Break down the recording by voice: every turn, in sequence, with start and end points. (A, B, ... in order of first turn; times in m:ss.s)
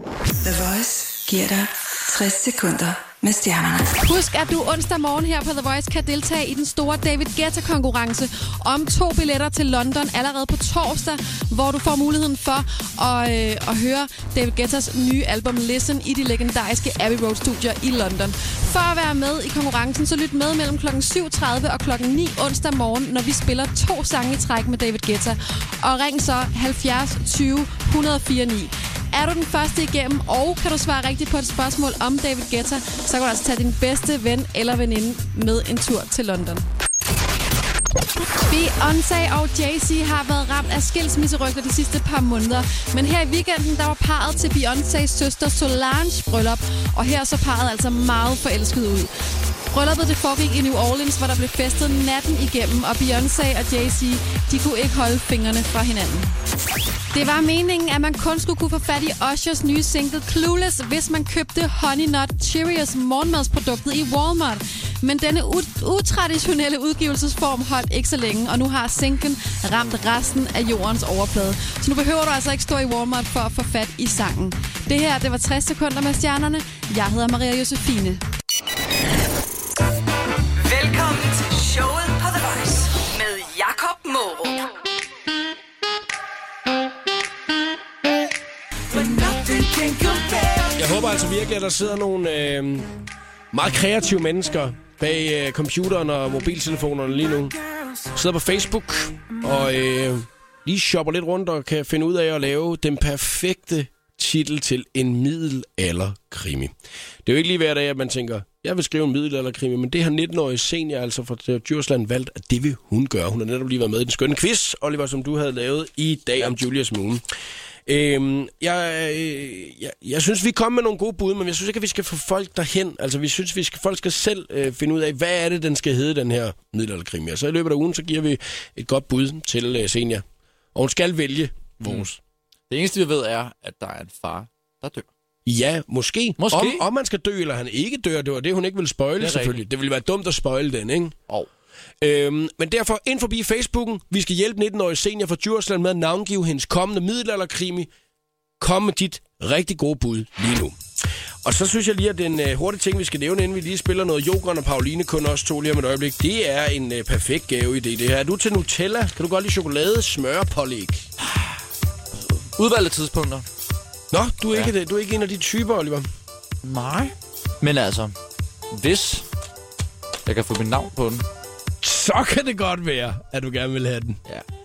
0:00.4-0:03.9 A
0:04.0-0:36.6 B
0:38.4-0:49.1 B
0:49.7-0:56.4 B
0:57.1-1:18.2 B
1:20.6-1:24.7 C
1:30.8-1:32.9 D
1:33.5-1:37.6 D
1:38.1-1:46.7 D
1:47.2-1:57.2 D
1:57.9-2:10.2 D
2:10.8-2:12.2 D
2:11.8-2:12.1 E
2:12.7-2:15.1 E
2:15.5-2:21.1 D
2:16.4-2:16.8 E
2:19.2-2:19.6 E
2:22.0-2:27.9 D
2:28.6-2:30.8 D
2:31.4-2:41.1 D
2:42.1-2:43.5 E
2:44.1-2:46.1 D
2:46.6-2:48.1 E
2:48.7-2:49.3 E
2:50.3-2:51.3 E
2:51.8-2:54.2 D